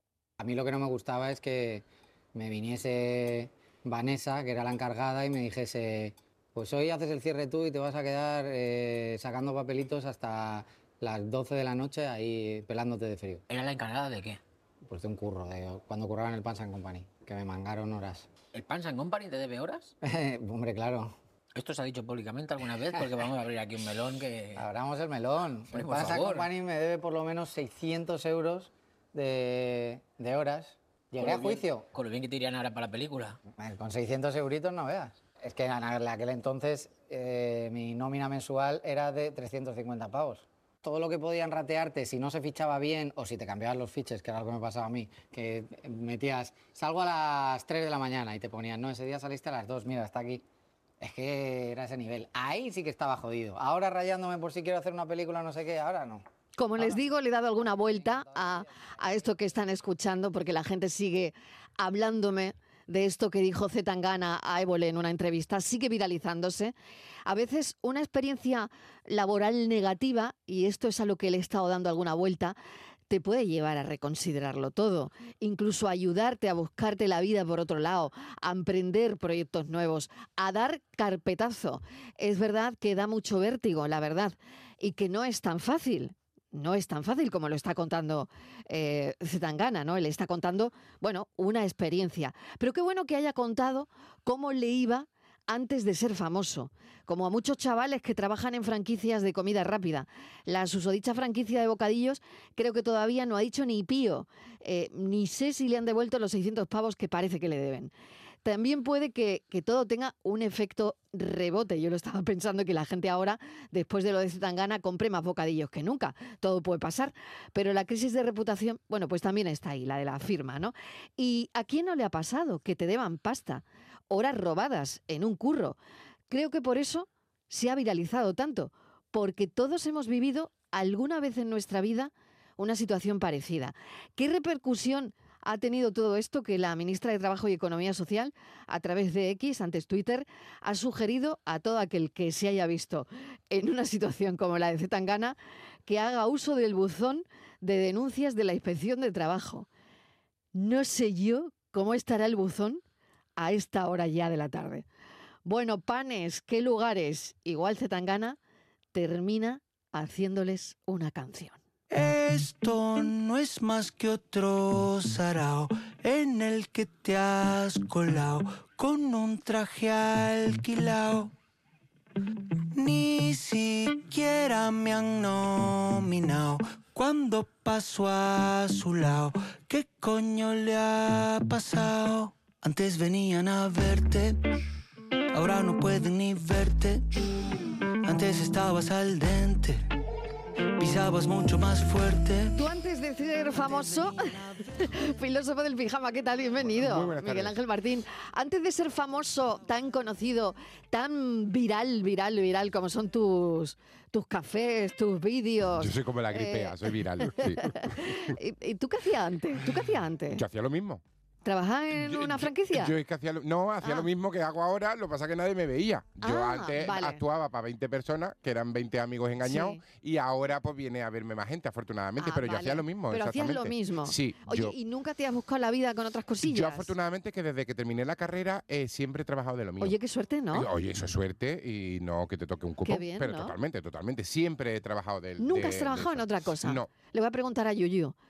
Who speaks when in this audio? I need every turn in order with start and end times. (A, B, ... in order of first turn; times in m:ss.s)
0:00.4-0:13.4 A
0:13.5-0:14.4 B
0:14.8-0:18.3 A
0:18.5-0:19.9 B
0:20.0-0:21.1 A
0:21.6-0:24.6 B
0:24.6-0:31.9 A
0:25.7-0:26.5 B
0:31.2-0:33.4 B
0:33.5-0:50.4 A
0:51.0-0:56.2 A
0:56.6-1:06.7 C
1:07.2-1:12.6 C
1:13.1-1:47.9 C
1:48.4-2:05.8 C
2:06.3-2:29.7 C
2:30.5-2:32.8 C
2:33.4-2:34.8 C
2:35.4-2:38.4 C
2:38.9-2:41.6 C
2:41.9-2:51.3 D
2:52.7-3:04.4 D
3:05.3-3:07.0 D
3:08.0-3:09.9 D
3:10.8-3:12.6 D
3:12.5-3:26.8 C
3:16.7-3:17.6 E
3:25.8-3:28.0 E
3:27.3-3:30.4 C
3:30.3-3:31.0 E
3:31.4-3:32.9 C
3:32.0-3:44.7 E
3:33.8-3:34.1 C
3:36.2-3:37.2 C
3:39.4-3:39.8 C
3:42.2-3:46.9 C
3:46.4-3:50.0 E
3:49.8-3:50.7 C
3:50.5-3:56.9 E
3:52.8-3:53.6 C
3:55.4-3:58.1 C